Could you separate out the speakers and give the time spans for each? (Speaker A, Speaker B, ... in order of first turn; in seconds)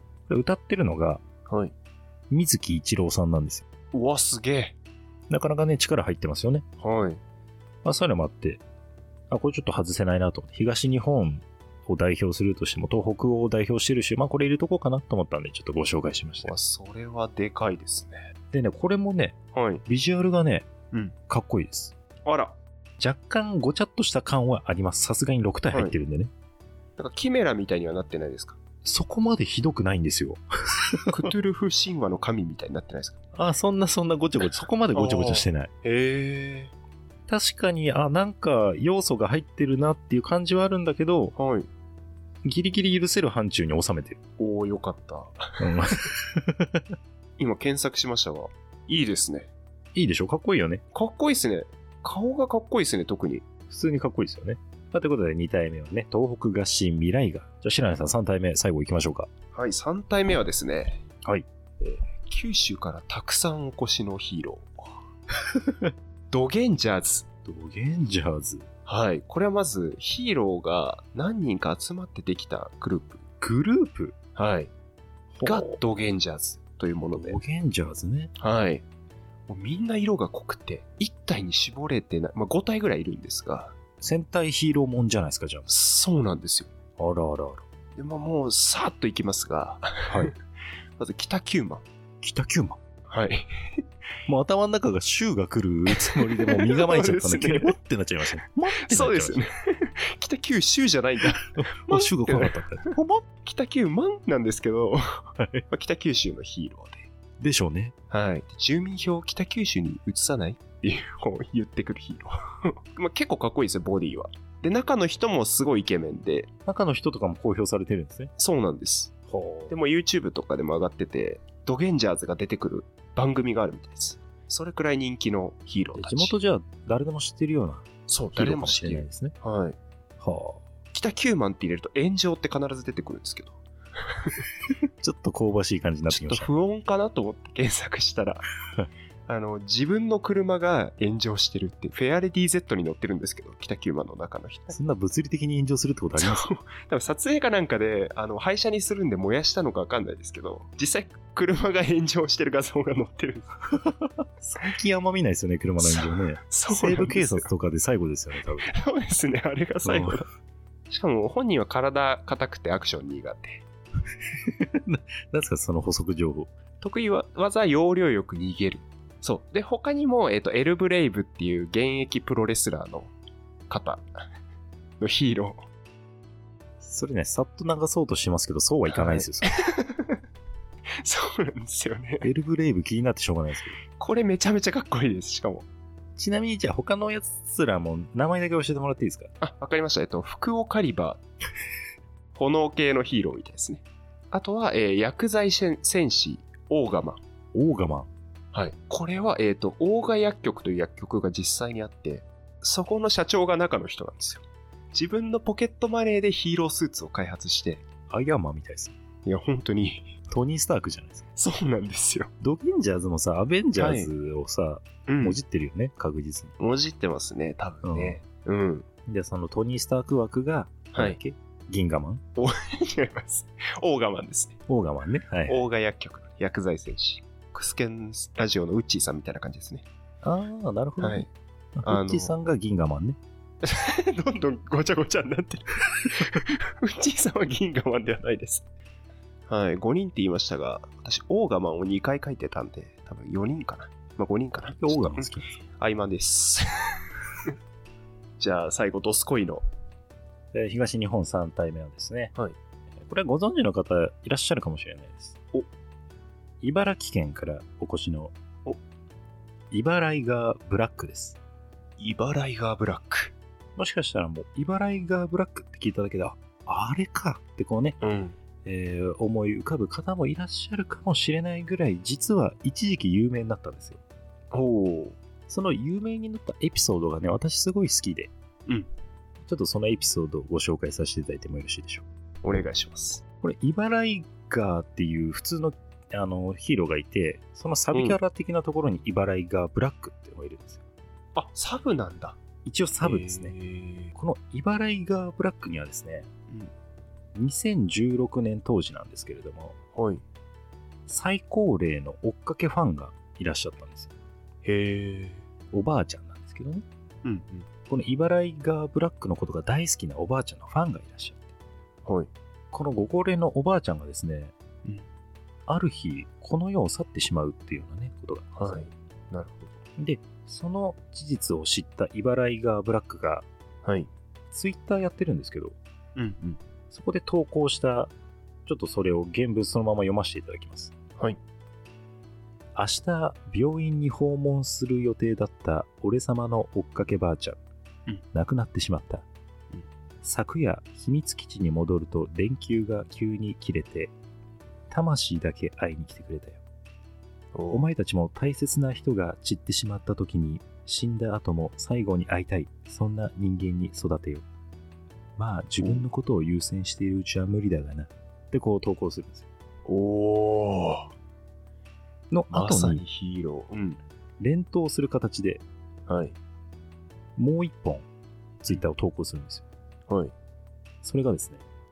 Speaker A: 0.3-1.2, 2.3-3.6, 5.3-6.7, 7.8-8.6, 9.3-16.5, 18.5-20.7, 21.3-21.9, 23.0-26.3, 28.8-31.2, 33.3-35.7, 37.3-41.3, 42.4-44.2, 45.6-46.8, 49.9-50.8, 53.7-59.3, 65.5-65.9, 67.4-68.7, 73.4-74.2, 75.3-75.8, 77.1-78.3, 84.0-85.7, 87.0-87.6, 90.1-90.3, 92.2-92.8, 94.3-99.5, 101.5-103.2, 105.4-105.6, 107.4-107.9, 116.7-118.3, 119.3-119.7, 126.0-129.3, 130.2-130.7, 135.0-136.5, 144.7-146.5, 153.8-158.7, 159.8-160.2, 164.4-166.5, 176.8-179.5, 182.2-183.8, 186.2-189.3, 197.5-198.1, 208.1-208.9, 210.3-211.3, 212.4-216.5, 217.8-218.2, 219.1-222.2, 224.7-225.6, 230.2-233.2, 244.7-245.6, 250.5-252.3, 253.0-255.4, 256.6-258.3, 259.7-261.4, 263.8-268.0, 268.6-274.0, 275.5-278.3, 279.4-282.0, 283.4-290.8, 292.6-293.5, 294.1-296.3, 297.3-299.8, 301.1-304.1, 305.7-306.8, 307.9-311.5, 312.7-314.5, 315.7-318.9, 319.9-323.5, 324.5-325.8, 326.9-328.1, 328.6-330.9, 332.7-337.6, 338.3-339.2, 340.2-344.1, 344.9-346.6, 347.7-354.4, 355.4-359.4, 362.3-363.0, 364.4-365.6, 367.4-368.1, 368.6-369.6, 371.0-371.6
Speaker B: 1.5-1.7, 3.9-4.8, 6.8-7.2, 16.4-18.2, 19.5-19.8, 20.9-21.1, 22.2-22.6, 27.0-28.6, 31.1-33.2, 34.9-36.7, 41.4-41.7, 44.4-46.1, 47.4-49.5, 50.9-53.5, 59.5-61.0, 61.8-65.0, 66.3-67.2, 68.8-73.2, 74.3-74.7, 75.4-77.4, 78.4-78.8, 79.5-83.7, 85.7-86.7, 87.9-90.3, 91.0-91.8, 93.1-93.8, 95.9-97.8, 98.7-102.6, 103.4-107.1, 108.1-116.5, 118.4-119.1, 119.7-126.3, 128.1-129.8, 130.9-133.6, 134.1-134.4, 136.1-138.4, 139.3-144.8, 146.2-153.5, 155.8-157.5, 158.6-160.2, 160.9-163.6, 166.8-173.1, 173.7-174.1, 175.0-175.6, 178.9-180.2, 181.0-182.3, 183.9-185.7, 189.4-191.2, 192.3-197.2, 198.5-207.8, 209.2-210.1, 211.3-212.3, 213.7-214.1, 215.1-215.4, 216.6-218.8, 220.9-221.2, 222.3-224.6, 225.5-229.8, 231.0-231.3, 231.8-232.3, 233.6-238.6, 239.5-247.5, 248.4-249.6, 262.0-263.3, 268.0-268.4, 274.5-275.2, 282.4-283.2, 287.9-288.2, 291.3-292.4, 293.0-294.1, 299.9-300.2, 304.6-305.4, 307.2-307.7, 312.0-312.3, 318.6-319.7, 323.8-324.1, 326.1-326.6, 347.5-347.9, 355.8-356.0, 359.8-361.1, 362.5-364.0, 366.1-366.4, 370.1-370.3